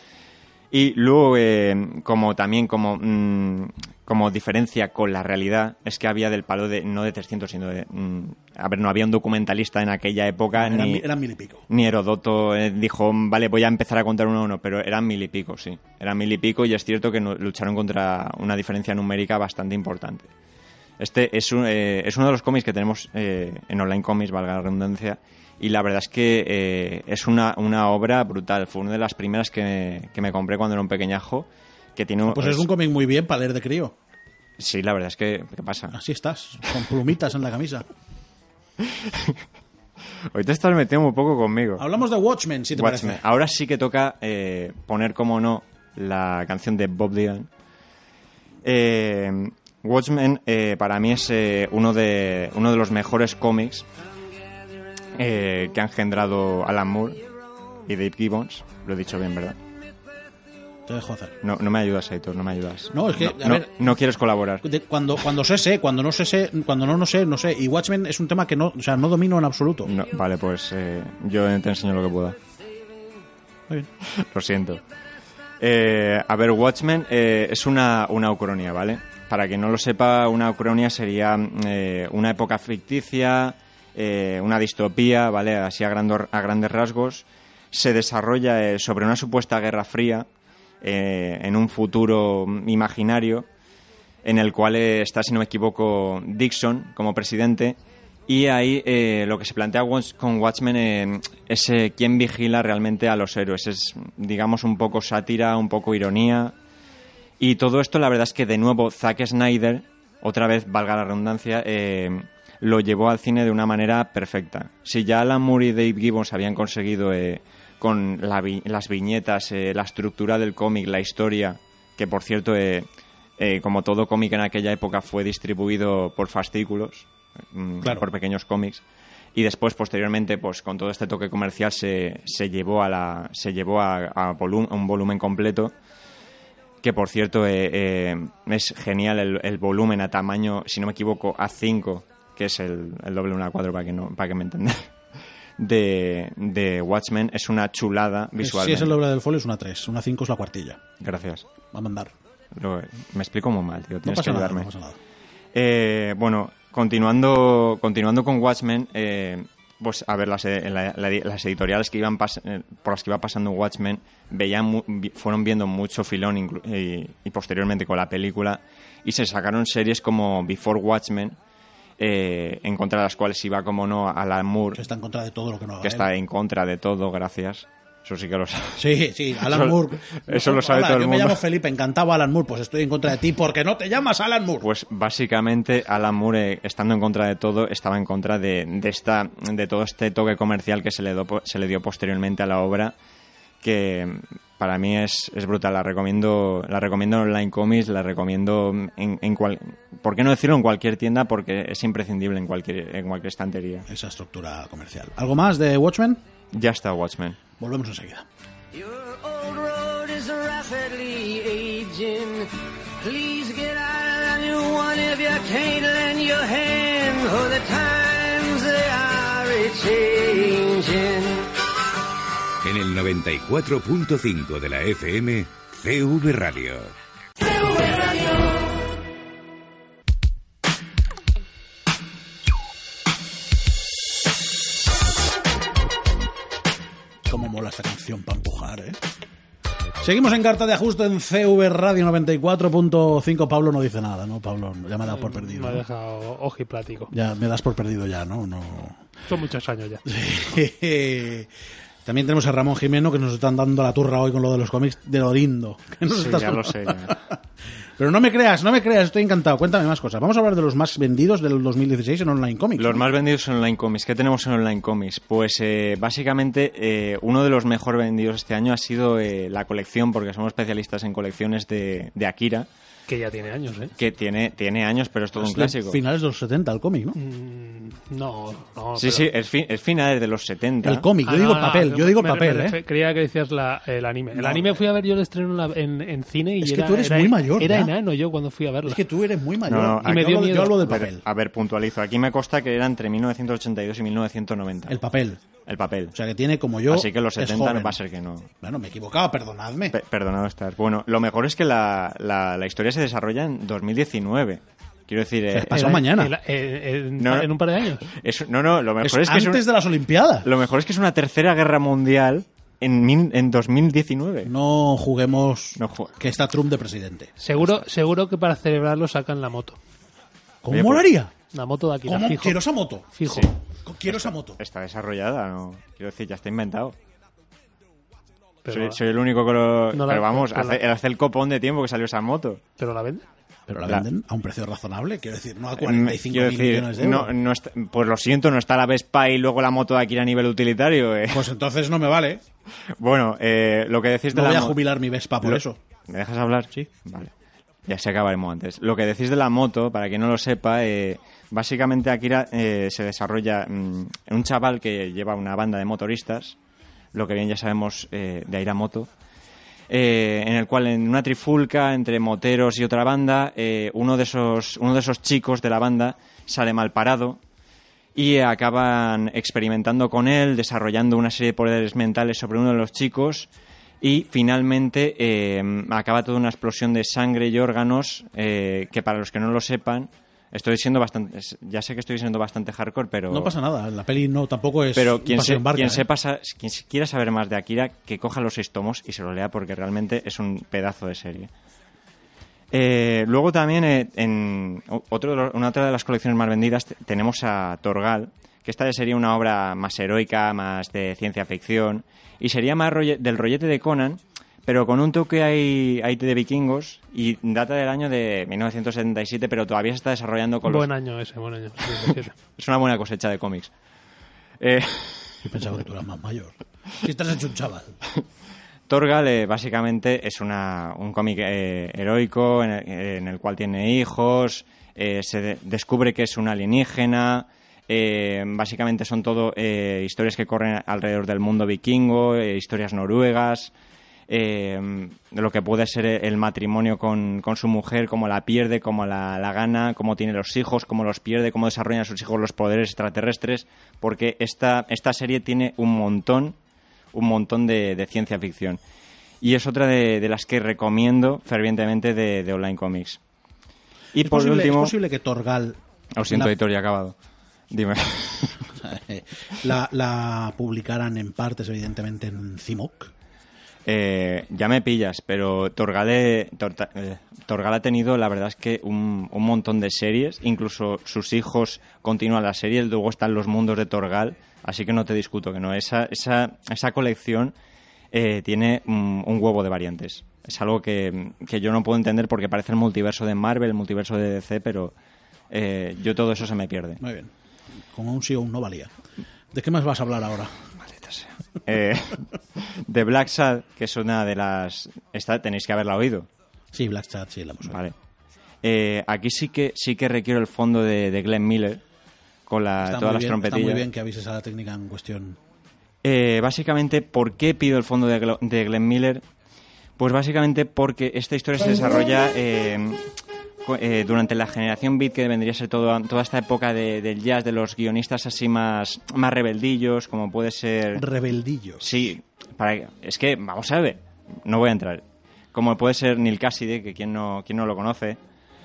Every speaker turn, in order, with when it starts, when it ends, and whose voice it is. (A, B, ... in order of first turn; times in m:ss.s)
0:00.7-0:11.0 A
0:10.5-0:11.6 B
0:11.7-0:20.3 A
0:21.0-0:32.7 A
0:32.3-0:34.0 B
0:34.6-0:36.0 A
0:35.9-0:37.9 B
0:38.8-0:39.4 A
0:40.3-0:41.9 A
0:41.8-0:43.2 B
0:42.8-0:47.5 A
0:48.6-0:53.9 A
0:55.2-0:57.2 A
0:57.8-0:59.6 A
1:00.9-1:01.4 B
1:01.4-1:04.6 A
1:02.9-1:04.0 B
1:04.6-1:09.9 B
1:09.9-1:12.4 A
1:14.1-1:14.8 A
1:15.6-1:30.3 A
1:30.8-1:33.5 A
1:34.2-1:46.6 A
1:47.4-2:02.9 A
2:03.4-2:08.8 A
2:09.4-2:15.7 A
2:16.8-2:24.9 A
2:25.6-2:29.0 A
2:28.4-2:30.8 B
2:31.0-2:31.5 A
2:31.7-2:32.1 B
2:32.5-2:34.7 A
2:34.0-2:35.0 B
2:35.5-2:51.4 A
2:52.0-2:54.8 A
2:54.7-2:56.1 B
2:55.8-3:01.4 A
2:58.8-3:04.7 B
3:04.6-3:13.0 A
3:13.6-3:23.9 A
3:23.9-3:26.2 B
3:26.5-3:27.4 A
3:27.6-3:28.3 B
3:28.7-3:41.5 C
3:42.6-3:47.0 D
3:57.3-3:59.0 B
4:00.0-4:05.8 B
4:05.0-4:07.1 E
4:07.1-4:09.0 B
4:09.3-4:10.0 E
4:10.1-4:11.5 B
4:12.0-4:17.4 B
4:16.1-4:17.2 A
4:18.0-4:23.0 B
4:22.8-4:32.7 A
4:33.1-4:33.9 E
4:34.0-4:36.0 A
4:35.4-4:37.2 B
4:37.2-4:39.3 E
4:39.0-4:41.1 A
4:40.8-4:42.8 B
4:41.2-4:49.0 E
4:44.4-4:44.8 B
4:46.6-4:47.9 B
4:48.8-4:51.2 B
4:49.7-4:55.0 A
4:50.1-4:50.8 E
4:54.9-4:55.4 B
4:55.7-4:56.2 A
4:56.1-4:58.0 B
4:56.9-4:58.5 A
4:58.6-5:00.0 B
4:59.9-5:06.0 A
5:05.5-5:06.3 B
5:05.7-5:08.1 E
5:07.2-5:07.5 A
5:08.1-5:09.6 A
5:09.0-5:10.5 B
5:10.4-5:14.5 A
5:14.4-5:17.3 B
5:15.8-5:16.2 A
5:17.4-5:19.8 E
5:20.6-5:21.3 B
5:20.7-5:21.1 A
5:21.5-5:22.6 E
5:22.0-5:24.6 B
5:23.2-5:23.5 E
5:24.1-5:27.0 A
5:28.6-5:29.0 E
5:28.7-5:32.6 A
5:29.9-5:30.8 E
5:32.8-5:33.2 E
5:33.7-5:37.3 B
5:35.8-5:41.5 A
5:41.3-5:42.4 B
5:43.0-5:44.8 A
5:44.3-5:45.8 B
5:45.4-5:47.3 A
5:47.9-5:56.6 A
5:57.1-5:59.1 A
5:59.9-6:07.4 A
6:08.2-6:13.5 A
6:14.0-6:23.5 A
6:23.3-6:26.1 B
6:25.0-6:31.5 A
6:32.7-6:50.9 A
6:50.6-6:52.4 E
6:52.6-6:53.7 A
6:54.6-6:55.6 A
6:55.4-6:58.0 B
6:58.9-7:13.7 A
7:14.3-7:26.6 A
7:27.1-7:28.8 A
7:29.4-7:33.2 A
7:34.1-7:34.9 A
7:34.2-7:36.5 B
7:36.2-7:37.2 A
7:37.7-7:38.7 A
7:38.7-7:43.1 B
7:43.9-7:57.6 A
7:58.1-8:04.9 A
8:05.5-8:07.0 A
8:07.0-8:07.3 B
8:07.9-8:08.9 B
8:09.5-8:10.6 B
8:10.8-8:16.3 A
8:16.7-8:17.8 B
8:17.7-8:18.0 A
8:18.6-8:21.8 A
8:22.5-8:23.9 A
8:22.8-8:25.4 B
8:26.0-8:29.2 A
8:30.0-8:33.0 A
8:33.6-8:41.0 A
8:41.0-8:41.9 B
8:41.8-8:48.2 A